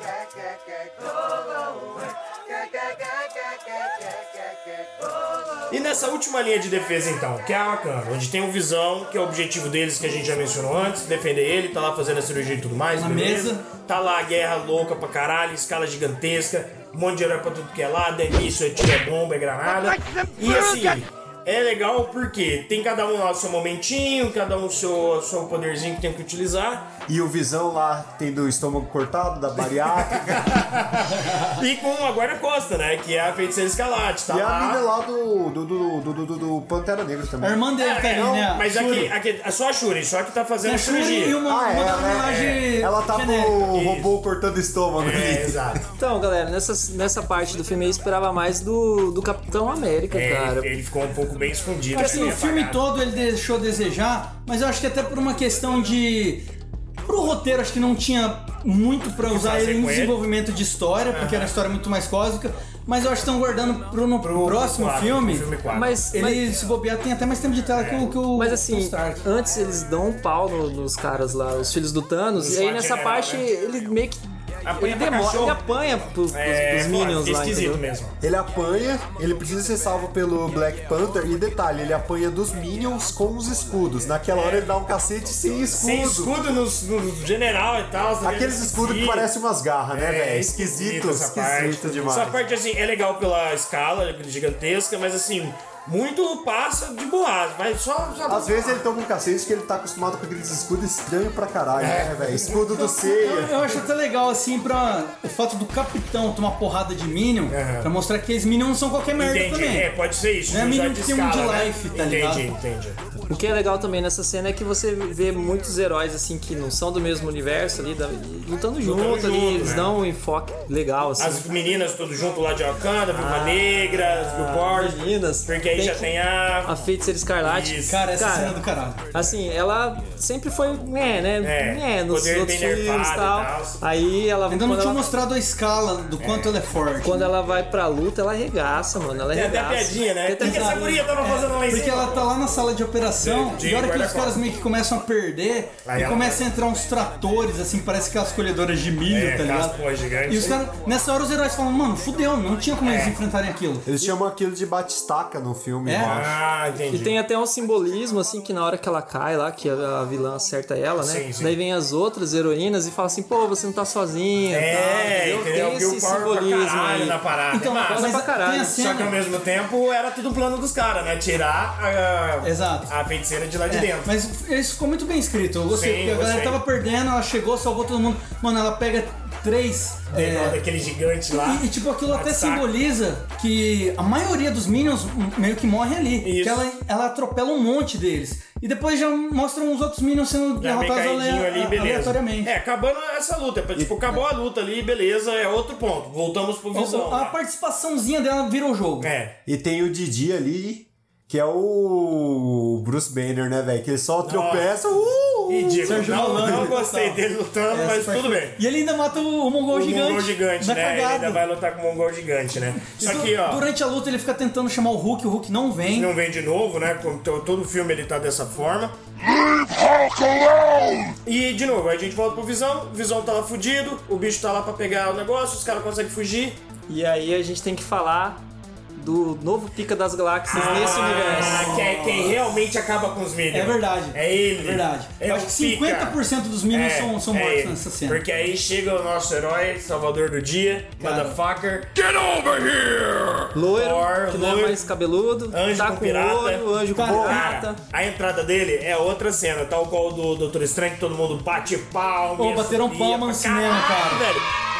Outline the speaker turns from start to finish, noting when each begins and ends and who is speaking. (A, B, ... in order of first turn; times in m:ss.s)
0:05.7-0:26.9 A
0:12.9-0:13.6 B
0:27.1-0:30.6 C
0:30.1-0:34.8 A
0:34.3-0:38.4 C
0:37.4-0:39.1 B
0:37.8-0:41.4 A
0:40.6-0:43.6 B
0:41.4-0:45.8 C
0:42.2-0:42.6 A
0:43.6-0:44.1 A
0:45.0-0:45.8 A
0:46.0-0:50.7 D
0:50.1-0:52.8 A
0:51.9-0:56.4 B
0:57.0-1:05.5 B
0:59.2-1:00.2 A
1:01.1-1:01.5 A
1:04.2-1:06.0 A
1:05.7-1:06.5 D
1:06.1-1:09.3 B
1:07.7-1:08.2 A
1:08.3-1:17.8 D
1:12.4-1:13.4 A
1:14.6-1:15.6 A
1:16.3-1:18.1 A
1:18.2-1:26.3 C
1:24.3-1:24.7 A
1:25.8-1:29.3 A
1:28.2-1:32.4 C
1:29.9-1:38.8 A
1:38.3-1:43.7 C
1:41.8-1:42.6 A
1:42.7-1:49.9 B
1:47.5-1:47.9 A
1:49.2-1:53.0 A
1:50.5-1:52.5 B
1:53.3-2:01.4 D
1:58.8-1:59.9 A
2:01.2-2:06.8 A
2:03.1-2:06.1 D
2:06.6-2:15.2 D
2:07.4-2:08.1 A
2:07.8-2:09.0 B
2:11.4-2:13.8 A
2:14.5-2:17.4 B
2:16.2-2:16.6 A
2:17.0-2:21.1 D
2:19.3-2:22.3 A
2:20.4-2:33.9 B
2:23.2-2:24.4 A
2:25.8-2:26.4 A
2:29.1-2:30.6 A
2:32.8-2:33.2 A
2:33.8-2:36.4 C
2:35.8-2:36.2 B
2:36.0-2:37.2 A
2:36.9-2:47.2 D
2:41.0-2:41.5 A
2:44.5-2:48.1 A
2:47.5-2:49.2 B
2:47.8-2:48.8 D
2:48.6-2:54.1 A
2:52.4-2:52.9 B
2:53.7-3:00.6 B
2:55.7-2:56.6 A
3:00.1-3:02.7 A
3:01.3-3:12.5 B
3:06.2-3:06.6 A
3:10.6-3:17.4 A
3:13.7-3:14.2 C
3:16.7-3:19.1 B
3:19.0-3:19.4 A
3:19.4-3:26.7 C
3:24.2-3:24.8 A
3:25.5-3:28.6 A
3:25.8-3:31.4 B
3:29.7-3:33.6 A
3:32.8-3:36.1 B
3:35.9-3:38.9 A
3:39.2-3:41.1 E
3:41.2-3:46.6 A
3:46.9-3:48.4 D
3:49.0-3:51.9 D
3:50.5-3:56.2 A
3:50.5-3:52.4 B
3:53.5-3:58.2 B
3:56.7-4:01.9 A
4:01.0-4:01.4 B
4:02.0-4:03.4 E
4:03.5-4:07.8 D
4:03.6-4:04.8 A
4:05.5-4:14.4 A
4:06.9-4:07.4 B
4:12.4-4:14.2 B